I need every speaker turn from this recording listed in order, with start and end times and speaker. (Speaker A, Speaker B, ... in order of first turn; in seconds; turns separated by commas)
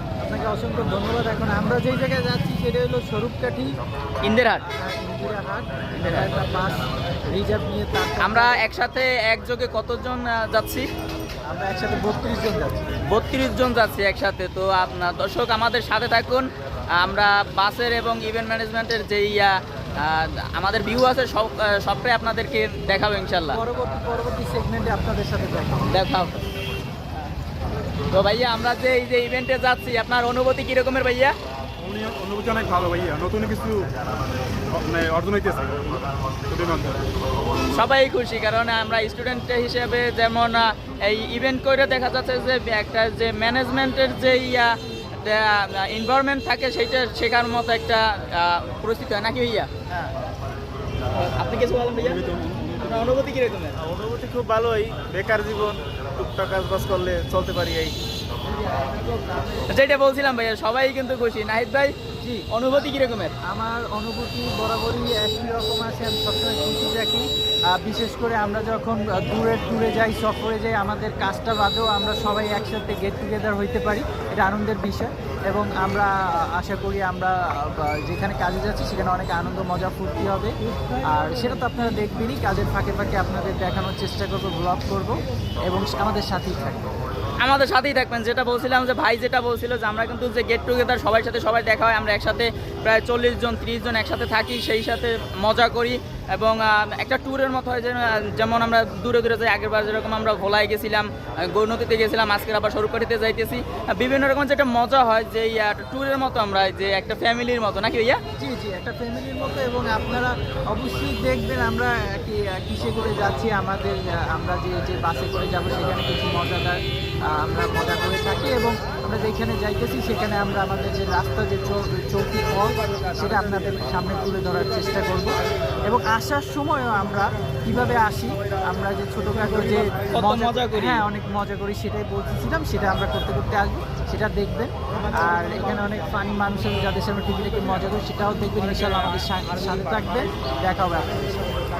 Speaker A: 0.2-3.7, Speaker B: 4.2-4.6, Speaker A: 4.6-8.6, Speaker B: 6.0-6.3, Speaker B: 8.2-10.8, Speaker A: 11.4-12.8, Speaker B: 13.1-23.6, Speaker A: 23.5-25.9, Speaker B: 25.9-26.4, Speaker B: 28.1-31.3, Speaker C: 31.8-33.9, Speaker C: 34.7-37.1, Speaker B: 37.7-49.7, Speaker B: 51.1-52.3, Speaker C: 52.0-53.1, Speaker B: 52.8-53.8, Speaker D: 53.8-58.0, Speaker A: 58.6-59.4, Speaker B: 59.7-61.9, Speaker A: 62.2-62.5, Speaker B: 62.5-63.3, Speaker A: 63.4-80.5, Speaker A: 81.0-86.9, Speaker B: 87.4-108.2, Speaker A: 108.4-141.5, Speaker B: 130.1-131.0